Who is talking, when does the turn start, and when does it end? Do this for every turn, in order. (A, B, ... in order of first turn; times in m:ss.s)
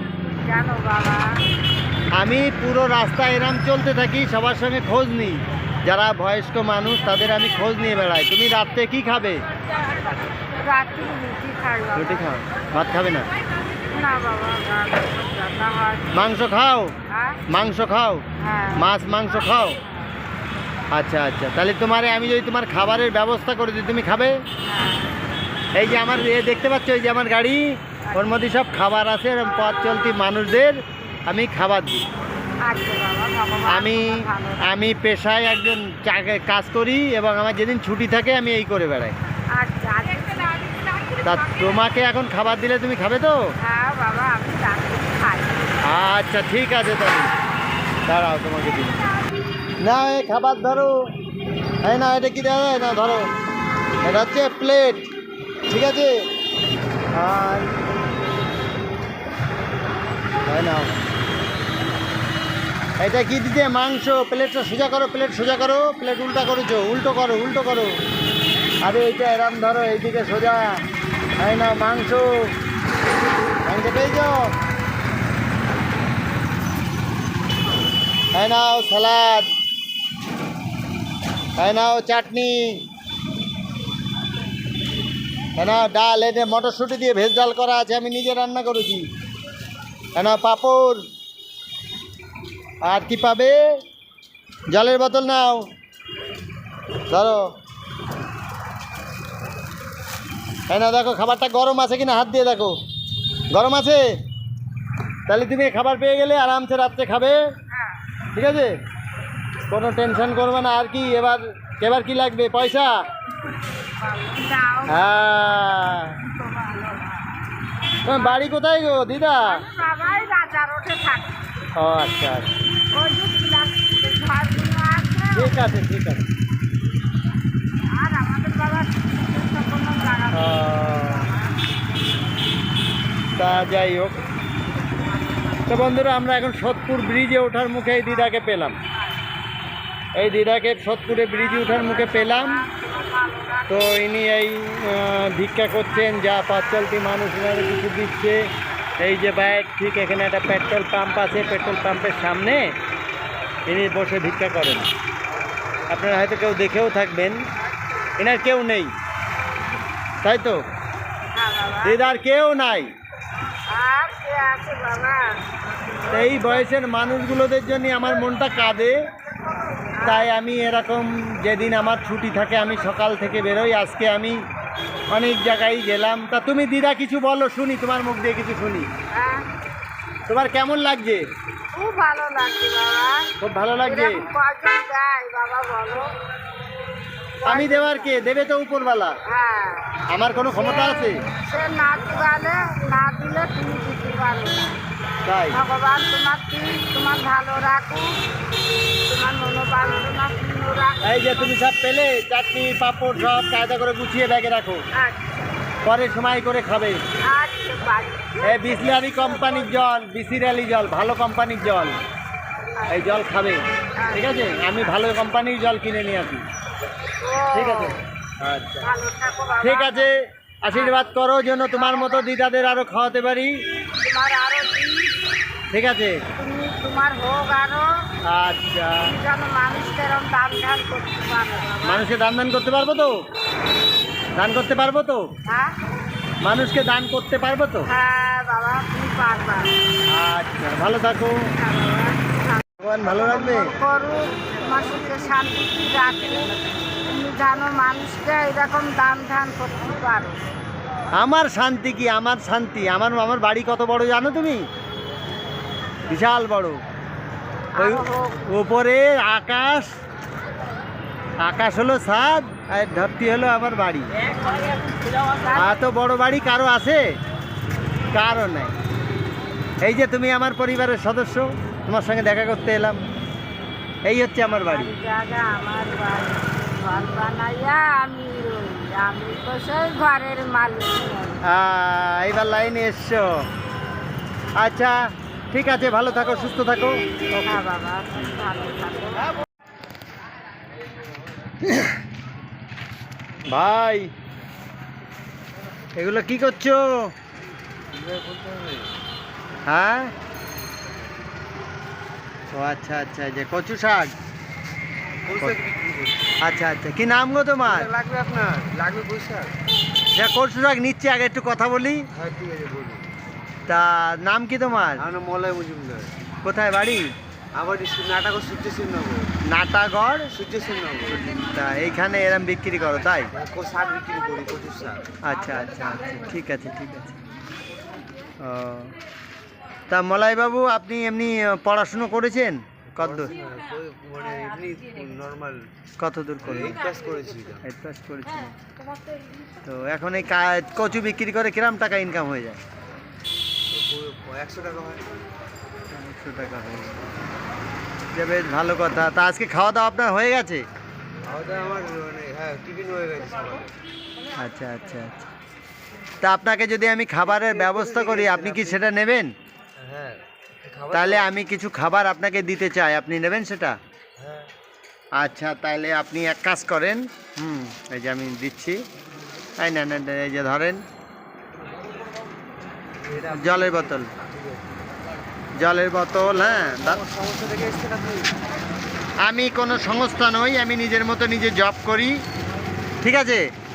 0:00.3-0:01.3 A
0:02.2-0:09.4 B
0:10.6-0:12.3 A
0:12.0-0:13.3 B
0:13.9-0:16.3 A
0:16.1-0:16.9 B
0:17.1-0:17.4 A
0:17.5-0:18.2 B
0:18.4-0:18.9 A
0:18.8-0:19.8 B
0:19.8-0:20.1 A
0:20.9-0:24.4 B
0:24.6-0:25.1 A
0:25.8-0:27.6 B
0:28.0-0:28.3 A
0:28.1-0:30.8 B
0:31.3-0:32.0 B
0:32.6-0:34.7 A
0:33.7-0:39.2 B
0:39.5-0:41.5 A
0:41.2-0:43.4 B
0:43.6-0:45.8 A
0:45.8-0:47.3 B
0:48.1-0:49.0 B
0:49.8-0:51.0 B
0:51.8-0:53.2 B
0:54.0-0:55.1 B
0:55.7-0:56.1 B
0:57.2-0:57.7 B
1:00.4-1:01.0 B
1:03.0-1:07.9 B
1:08.8-1:10.8 B
1:11.4-1:12.5 B
1:13.6-1:14.4 B
1:18.3-1:19.5 B
1:21.6-1:22.8 B
1:25.6-1:29.0 B
1:30.2-1:31.0 B
1:32.8-1:33.6 B
1:34.7-1:35.7 B
1:37.1-1:37.4 B
1:40.7-1:42.8 B
1:43.5-1:44.0 B
1:45.3-1:47.4 B
1:47.7-1:48.0 A
1:48.3-1:48.7 B
1:49.7-1:52.9 B
1:54.0-1:57.3 A
1:54.9-1:56.1 B
1:58.0-1:59.6 B
1:58.1-1:58.4 A
1:59.5-2:01.4 A
2:01.8-2:02.6 B
2:02.9-2:05.6 A
2:05.4-2:06.2 B
2:07.9-2:11.6 A
2:10.3-2:11.3 B
2:13.4-2:14.2 B
2:15.7-2:18.8 B
2:20.2-2:22.6 B
2:21.3-2:24.0 A
2:23.7-2:28.4 B
2:29.0-2:32.6 B
2:33.7-2:34.9 B
2:35.9-2:37.4 B
2:38.2-2:38.9 B
2:40.2-2:40.6 B
2:41.3-2:42.0 A
2:41.8-2:42.9 B
2:43.7-2:45.3 A
2:46.1-2:49.0 B
2:49.9-2:50.3 A
2:50.0-2:54.4 B
2:55.1-2:58.9 B
2:59.1-2:59.4 A
3:00.3-3:01.2 B
3:01.7-3:03.3 A
3:03.4-3:04.2 B
3:03.8-3:06.1 A
3:07.4-3:08.2 A
3:07.5-3:09.2 B
3:09.3-3:14.8 A
3:10.1-3:11.2 B
3:15.3-3:15.6 B
3:15.5-3:18.1 A
3:19.1-3:21.5 A
3:21.0-3:24.8 B
3:24.9-3:25.2 A
3:25.8-3:27.0 B
3:27.3-3:29.2 A
3:28.4-3:32.0 B
3:32.8-3:33.2 A
3:32.9-3:33.6 B
3:34.0-3:34.5 A
3:34.1-3:36.4 B
3:37.2-3:38.0 A
3:37.5-3:38.0 B
3:38.5-3:38.9 B
3:38.8-3:40.1 A
3:39.6-3:40.1 B
3:40.6-3:43.5 B
3:40.7-3:41.1 A
3:41.7-3:42.3 A
3:44.0-3:45.1 A
3:45.7-3:46.2 B
3:46.4-3:47.9 A
3:48.2-3:49.1 B
3:49.0-3:52.1 A
3:51.8-3:53.2 B
3:54.4-3:55.2 B
3:55.5-3:55.8 A
3:56.4-3:57.9 B
3:57.9-3:59.8 A
4:00.1-4:01.4 B
4:01.5-4:10.4 A
4:02.8-4:03.7 B
4:11.2-4:14.6 B
4:16.1-4:16.8 B
4:17.8-4:18.4 A
4:17.8-4:19.9 B
4:21.4-4:24.1 B
4:25.4-4:25.8 A
4:25.5-4:27.0 B
4:28.1-4:28.8 B
4:29.8-4:33.0 B
4:34.1-4:34.9 B
4:34.5-4:41.4 A
4:41.5-4:43.3 B
4:44.6-4:45.0 B
4:45.5-4:47.6 B
4:47.4-4:49.3 A
4:51.6-4:52.0 B
4:53.5-4:54.1 B
4:56.0-4:56.9 B
4:57.9-4:58.9 C
4:59.7-5:00.1 B
5:02.5-5:04.1 B
5:05.3-5:06.3 C
5:06.4-5:07.9 B
5:07.6-5:09.5 C
5:10.1-5:12.0 B
5:12.1-5:13.1 C
5:13.7-5:15.0 B
5:15.0-5:16.1 C
5:16.4-5:17.1 B
5:17.6-5:19.3 C
5:19.5-5:20.3 B
5:20.3-5:21.4 C
5:21.4-5:23.3 B
5:23.3-5:25.0 C
5:25.2-5:27.2 B
5:28.4-5:28.9 B
5:29.9-5:33.3 B
5:32.9-5:35.6 C
5:36.0-5:36.8 B
5:36.4-5:37.6 C
5:37.6-5:38.6 B
5:39.6-5:42.6 B
5:43.7-5:45.0 C
5:45.9-5:47.2 B
5:48.1-5:50.6 B
5:51.2-5:53.7 C
5:54.4-5:55.3 B
5:56.2-5:59.3 B
5:57.2-5:58.8 C
5:59.8-6:01.3 C
6:00.9-6:03.8 B
6:04.2-6:04.5 C
6:05.2-6:08.8 B
6:09.6-6:10.8 B
6:13.0-6:14.8 C
6:13.3-6:14.1 B
6:15.6-6:17.0 B
6:16.2-6:18.3 C
6:19.2-6:22.2 B
6:23.0-6:23.4 B